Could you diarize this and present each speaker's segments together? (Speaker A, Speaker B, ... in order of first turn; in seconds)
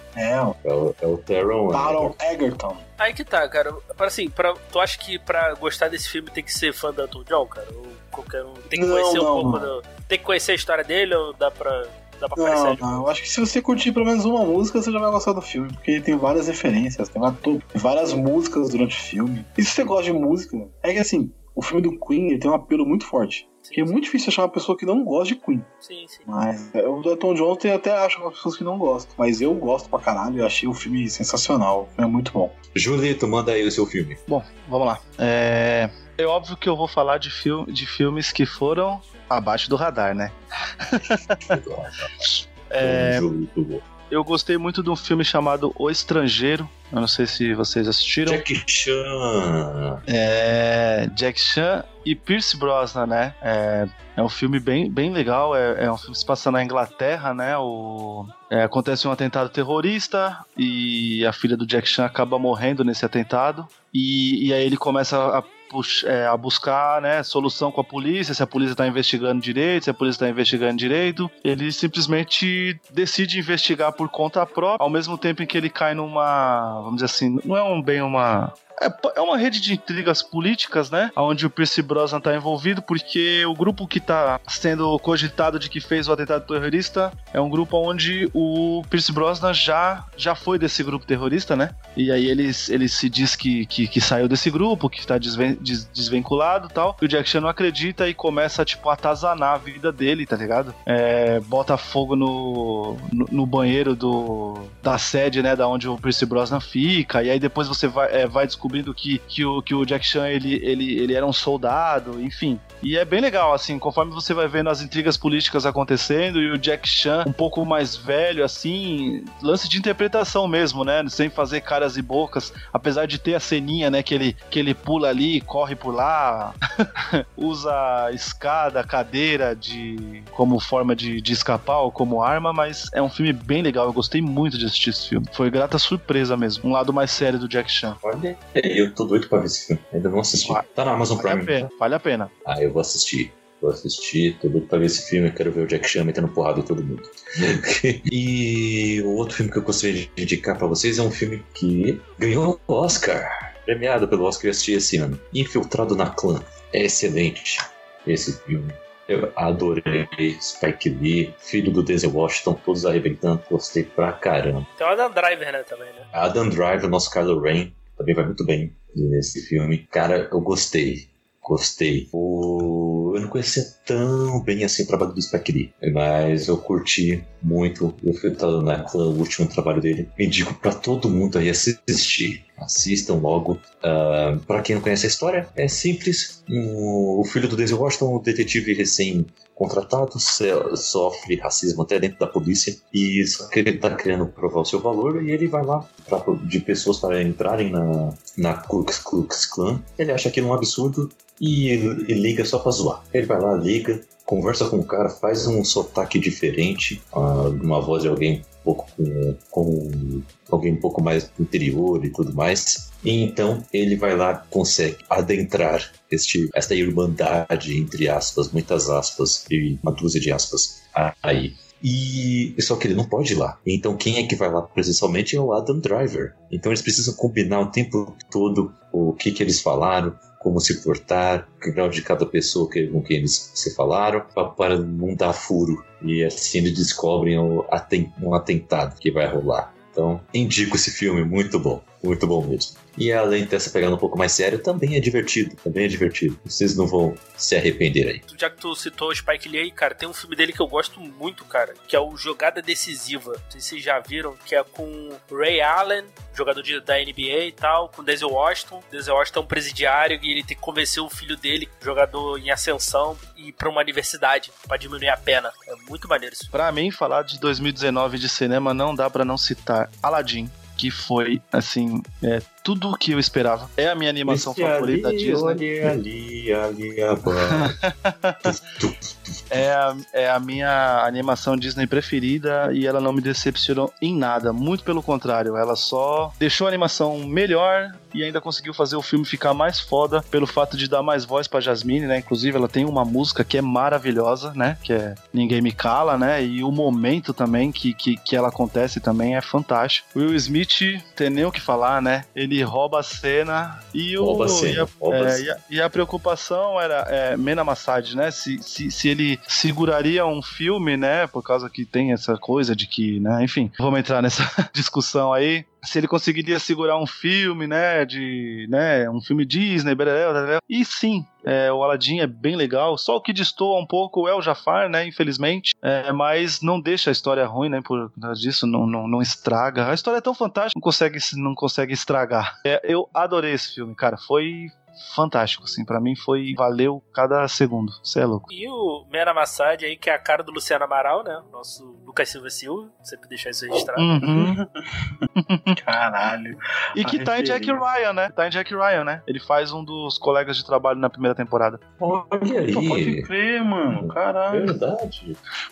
Speaker A: 0.1-0.6, 1.7-2.8, 8.7-9.7, 12.4-25.7, 26.2-32.5, 344.2-344.7, 345.8-347.8, 352.7-354.7
Speaker B: 0.6-2.2, 32.7-34.2, 41.0-42.1, 42.8-43.9, 48.2-50.0, 138.0-141.7, 142.4-164.7, 166.1-248.2, 274.2-277.7, 278.4-279.6, 304.2-305.6, 352.0-353.3, 353.9-355.4
Speaker C: 3.0-13.1, 23.6-23.9, 25.8-26.3, 164.8-166.1, 248.3-266.5, 338.5-344.2
Speaker D: 34.3-41.5, 42.2-43.2, 44.1-48.4, 50.1-126.6, 127.2-138.0, 140.4-140.6, 141.2-142.3, 266.5-275.9, 277.5-278.5, 279.5-338.5, 344.0-344.6, 345.4-345.8, 346.9-351.8